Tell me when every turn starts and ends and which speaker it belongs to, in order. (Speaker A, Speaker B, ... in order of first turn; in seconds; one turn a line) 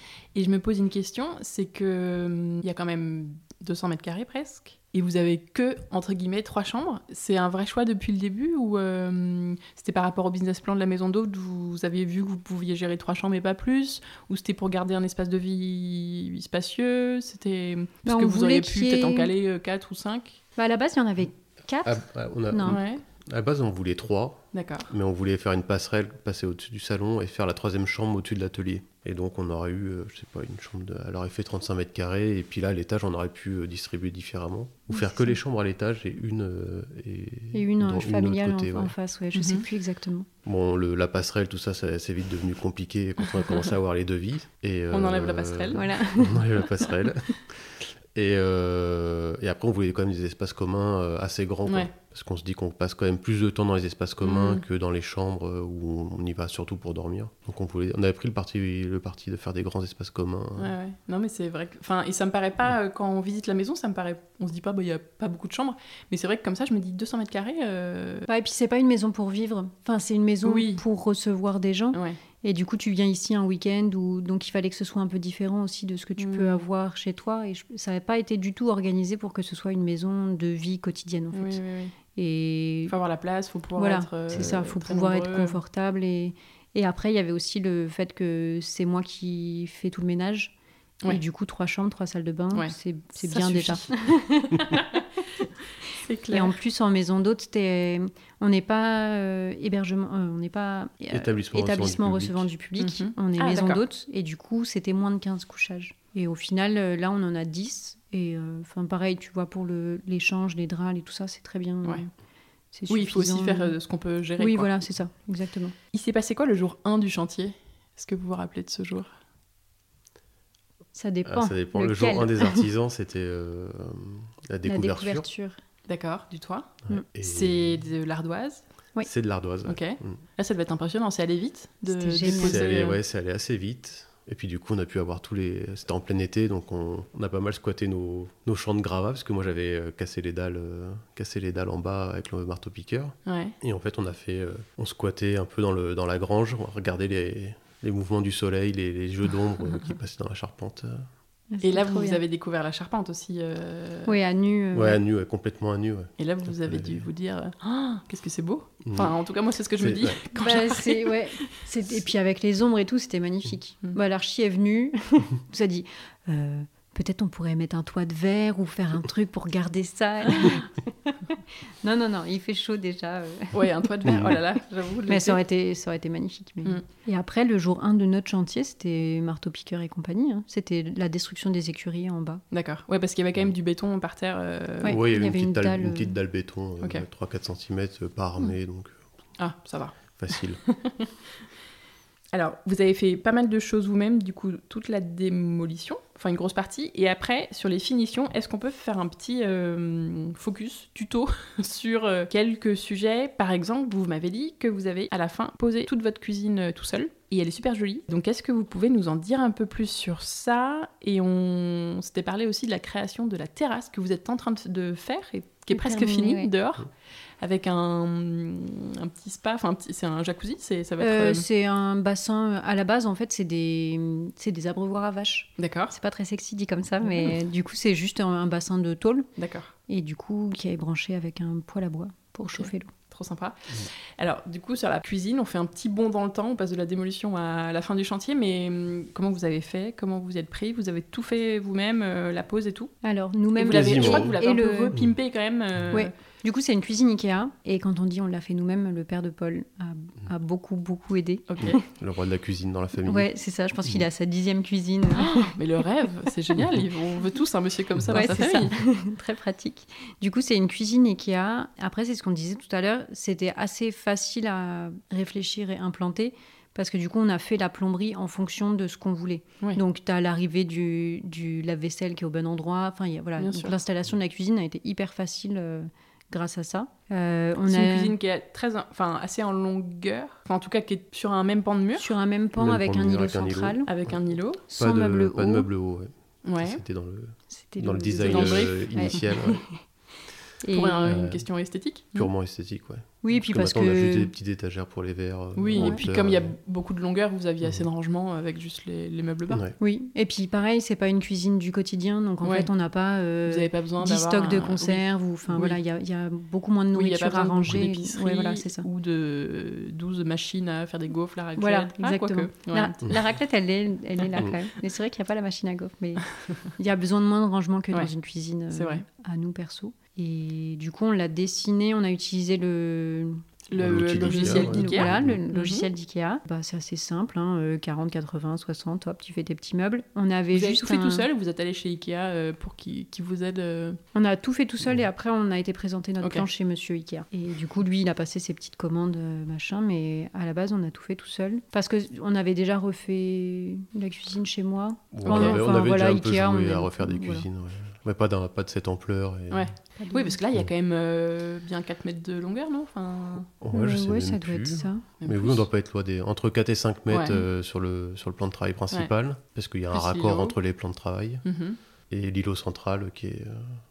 Speaker A: 0.3-20.4
Speaker B: 18.1-19.3
Speaker B: 20.6-22.8
Speaker C: 21.9-38.9
Speaker A: 22.7-23.0
Speaker A: 24.5-24.9
Speaker B: 34.9-35.3
Speaker B: 37.5-40.3
Speaker A: 39.4-39.6
Speaker C: 40.4-60.7
Speaker A: 44.9-45.8
Speaker B: 45.7-46.4
Speaker A: 54.2-54.6
Speaker A: 60.6-68.3
Speaker B: 68.3-81.6
Speaker A: 70.5-70.8
Speaker A: 76.2-76.6
Speaker A: 81.3-81.9
Speaker B: 82.2-82.9
Speaker A: 82.9-85.6
Speaker B: 83.8-90.5
Speaker B: 91.1-94.9
Speaker A: 92.5-93.9
Speaker A: 94.7-95.0
Speaker A: 96.0-96.5
Speaker B: 96.3-112.1
Speaker C: 101.1-102.5
Speaker A: 102.8-103.8
Speaker B: 112.7-113.8
Speaker A: 112.9-114.7
Speaker B: 114.4-115.8
Speaker A: 115.9-119.1
Speaker B: 121.0-122.7
Speaker C: 121.3-125.3
Speaker B: 124.7-125.6
Speaker A: 125.9-128.6
Speaker C: 126.9-127.9
Speaker C: 129.0-130.2
Speaker A: 129.7-133.0
Speaker B: 131.9-132.7
Speaker C: 132.3-151.1
Speaker A: 143.3-143.6
Speaker B: 151.5-152.2
Speaker A: 151.6-154.1
Speaker B: 154.1-155.0
Speaker C: 154.7-157.1
Speaker A: 156.2-161.2
Speaker C: 158.8-159.1
Speaker C: 159.8-160.2
Speaker B: 160.3-171.2
Speaker B: 171.8-174.4
Speaker A: 173.5-175.4
Speaker B: 175.1-182.4
Speaker A: 182.5-185.0
Speaker B: 184.8-186.2
Speaker C: 184.8-189.0
Speaker A: 189.4-189.9
Speaker C: 190.2-190.6
Speaker A: 192.3-216.9
Speaker B: 215.7-216.5
Speaker A: 217.4-221.4
Speaker B: 221.0-229.3
Speaker A: 225.6-225.9
Speaker A: 229.4-229.7
Speaker B: 229.9-232.9
Speaker A: 232.5-233.6
Speaker A: 234.2-242.9
Speaker B: 243.0-245.0
Speaker A: 243.6-246.1
Speaker C: 243.7-244.4
Speaker B: 245.9-251.8
Speaker C: 251.6-253.3
Speaker B: 253.1-255.5
Speaker A: 255.2-258.7
Speaker B: 258.1-278.1
Speaker A: 273.4-273.7
Speaker A: 277.7-282.0
Speaker B: 282.0-283.9
Speaker C: 282.6-283.8
Speaker A: 283.9-284.6
Speaker B: 284.7-285.7
Speaker C: 284.7-289.6
Speaker A: 286.5-286.8
Speaker B: 287.5-289.8
Speaker A: 288.2-288.8
Speaker B: 290.6-291.2
Speaker A: 290.7-292.3
Speaker C: 291.1-291.5
Speaker C: 292.1-296.5
Speaker B: 293.2-294.3
Speaker A: 295.6-299.6
Speaker C: 299.5-299.8
Speaker B: 299.8-308.9
Speaker A: 303.5-305.0
Speaker A: 307.0-312.9
Speaker B: 311.6-331.3
Speaker A: 318.7-319.0
Speaker A: 323.7-325.8
Speaker C: 323.8-325.4
Speaker A: 330.6-334.0
Speaker B: 334.1-347.5
Speaker C: 345.1-349.7
Speaker A: 349.5-353.4
Speaker B: 350.0-350.4
Speaker C: 353.6-361.4
Speaker B: 353.7-355.1
Speaker A: 355.2-355.6
Speaker A: 357.1-357.4
Speaker A: 359.9-360.5
Speaker A: 361.5-361.8
Speaker C: 362.1-363.7